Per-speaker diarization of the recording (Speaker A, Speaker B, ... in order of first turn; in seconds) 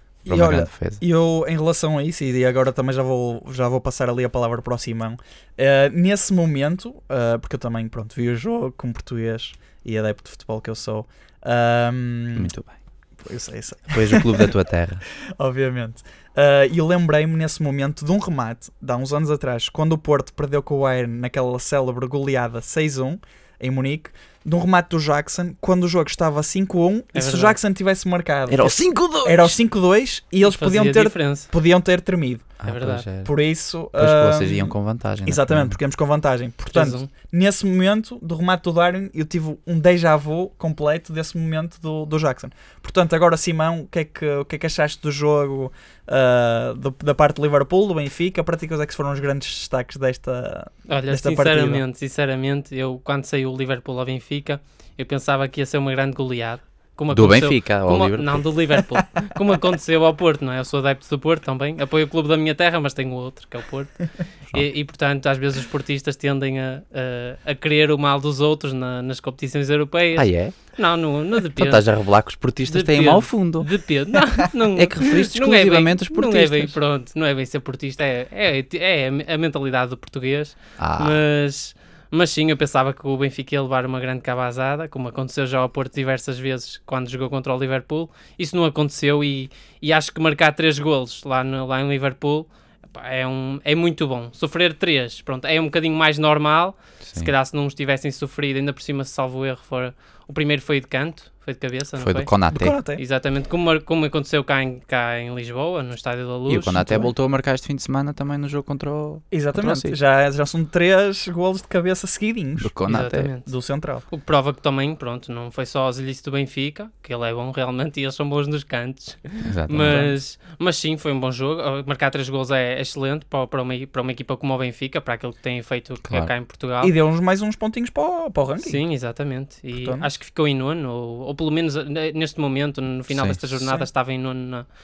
Speaker A: 0.2-1.0, 12.3-12.8, 13.9-15.0, 28.5-29.6, 32.6-33.3, 34.0-35.8, 57.1-58.6, 70.1-70.7, 71.5-73.7, 74.7-76.8, 80.8-81.2, 97.0-97.3, 102.0-102.8, 106.5-110.0, 112.6-113.3, 119.4-120.1, 133.1-133.4
Speaker B: 0.2-12.5, 13.2-14.5, 15.4-32.5, 33.2-51.8, 102.5-103.0, 109.3-114.0, 126.8-128.8, 129.7-130.1, 133.6-133.9
Speaker C: 27.1-27.6, 30.4-31.5, 32.6-33.1, 36.7-37.1, 50.9-71.8, 72.7-102.3, 102.9-107.1, 112.9-113.5, 114.1-126.9, 128.6-134.6